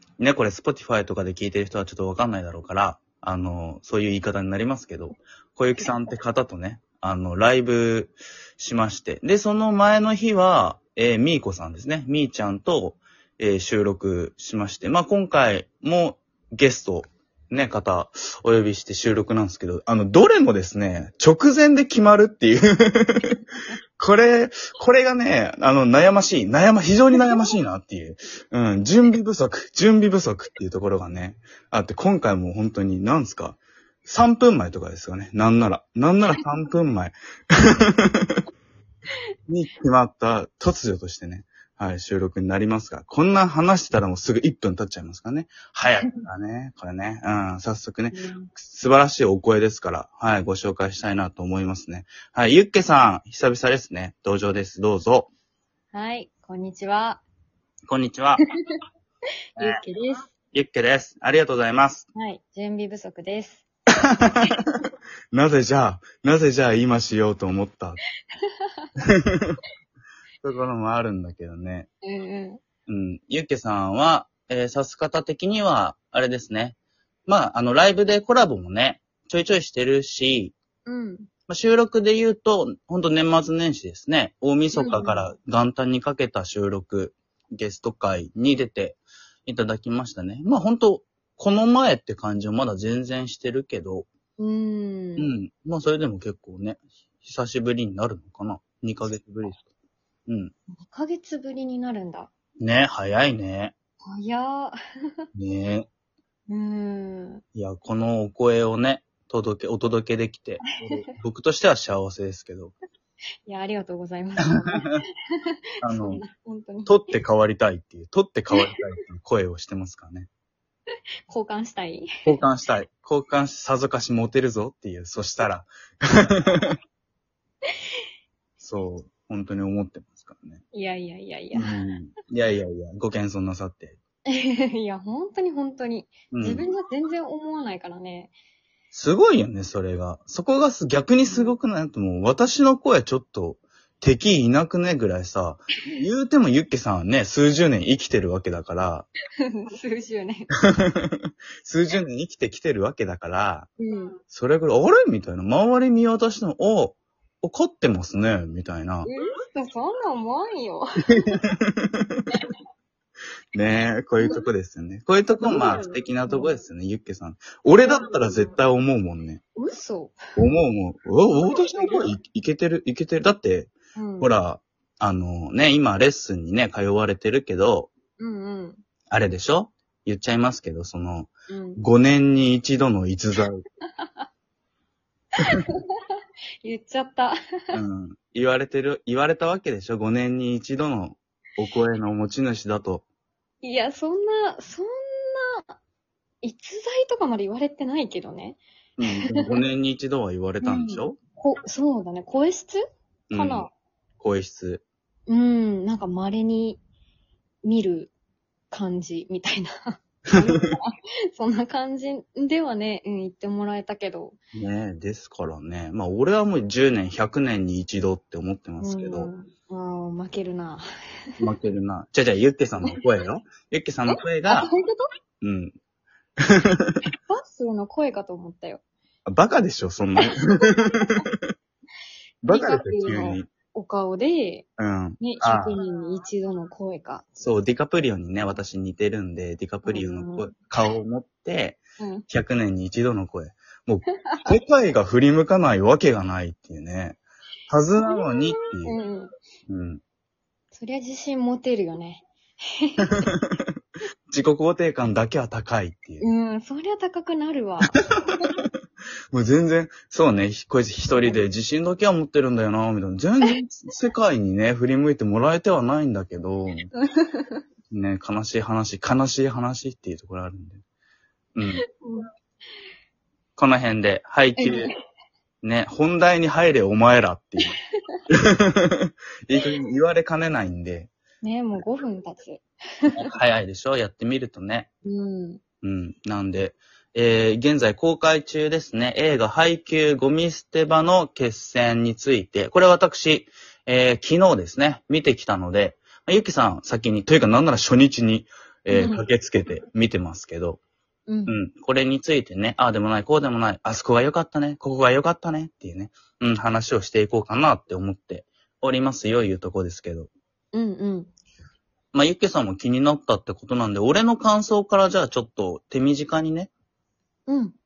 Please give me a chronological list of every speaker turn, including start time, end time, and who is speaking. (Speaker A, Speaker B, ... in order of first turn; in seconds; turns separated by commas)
Speaker A: 0.2-23.4, Speaker A: 24.0-38.4, Speaker B: 27.2-27.5, Speaker A: 39.5-55.3, Speaker B: 48.1-48.5, Speaker B: 55.9-57.2, Speaker A: 57.9-58.4, Speaker A: 59.6-59.8, Speaker B: 59.6-60.3, Speaker A: 60.5-62.1, Speaker B: 62.1-63.6, Speaker A: 64.2-64.5, Speaker A: 65.3-68.0, Speaker B: 68.5-68.9, Speaker A: 69.0-69.6, Speaker A: 70.4-71.9, Speaker B: 72.0-72.6, Speaker A: 72.9-80.5, Speaker B: 80.8-81.3, Speaker A: 81.5-94.1, Speaker B: 84.7-85.3, Speaker B: 94.4-95.3, Speaker A: 95.2-99.6, Speaker A: 100.3-100.5, Speaker B: 100.8-102.3, Speaker A: 102.6-103.7, Speaker B: 104.0-104.8, Speaker A: 105.3-105.8, Speaker B: 106.5-107.4, Speaker A: 107.5-112.7, Speaker B: 110.6-111.1, Speaker B: 113.5-115.0, Speaker A: 115.8-116.2, Speaker B: 115.8-117.1, Speaker A: 116.8-120.3, Speaker B: 121.3-122.3, Speaker A: 122.2-126.8, Speaker A: 128.6-130.6, Speaker B: 130.7-131.8, Speaker A: 131.5-134.0, Speaker B: 134.3-138.3, Speaker A: 136.3-136.7, Speaker A: 138.9-149.1, Speaker B: 141.3-141.6, Speaker B: 149.5-150.5, Speaker A: 150.6-153.7, Speaker B: 153.8-154.2, Speaker A: 154.3-159.1, Speaker B: 159.0-161.4, Speaker A: 161.2-162.3, Speaker A: 163.5-169.4, Speaker B: 165.4-166.6, Speaker B: 167.8-168.4, Speaker B: 169.6-170.2, Speaker A: 170.3-177.9, Speaker B: 171.4-172.1, Speaker B: 173.9-174.3, Speaker B: 178.2-178.8, Speaker A: 179.1-183.6, Speaker B: 181.5-181.8, Speaker B: 184.0-184.2, Speaker B: 185.5-186.1, Speaker B: 186.6-187.8, Speaker A: 187.7-193.0, Speaker B: 193.6-195.8, Speaker B: 196.4-199.6, Speaker A: 199.0-201.2, Speaker B: 200.6-202.8, Speaker A: 203.3-203.7, Speaker B: 203.3-203.7, Speaker A: 204.2-204.8, Speaker B: 205.3-206.8, Speaker B: 207.6-208.1, Speaker B: 208.7-214.4, Speaker A: 210.3-210.7, Speaker A: 214.5-219.3, Speaker B: 218.8-221.5, Speaker A: 221.4-224.7, Speaker B: 224.1-225.1, Speaker A: 225.4-225.8, Speaker A: 226.4-226.9, Speaker B: 227.1-228.8, Speaker A: 229.2-231.5, Speaker B: 230.2-231.1, Speaker A: 232.4-233.5, Speaker B: 232.5-234.7, Speaker A: 234.8-235.8, Speaker B: 235.2-237.3, Speaker A: 237.4-249.0, Speaker B: 239.8-240.5, Speaker B: 242.0-242.2, Speaker B: 244.3-244.6, Speaker B: 248.0-249.3, Speaker A: 249.7-250.0, Speaker B: 250.7-253.3, Speaker A: 253.1-253.7, Speaker A: 254.3-256.2, Speaker B: 256.2-258.0, Speaker A: 259.3-266.9, Speaker B: 266.9-267.6, Speaker A: 267.9-270.8, Speaker A: 271.5-271.8, Speaker B: 272.0-272.3, Speaker A: 273.6-274.9, Speaker B: 274.6-274.9, Speaker A: 275.6-277.8, Speaker A: 278.3-281.1, Speaker B: 281.4-283.1, Speaker A: 283.1-284.9, Speaker B: 285.0-285.6, Speaker A: 285.8-300.8, Speaker B: 298.9-299.2, Speaker B: 301.3-301.5, Speaker A: 301.5-310.3, Speaker B: 310.7-311.3, Speaker A: 312.1-316.7, Speaker B: 317.5-317.8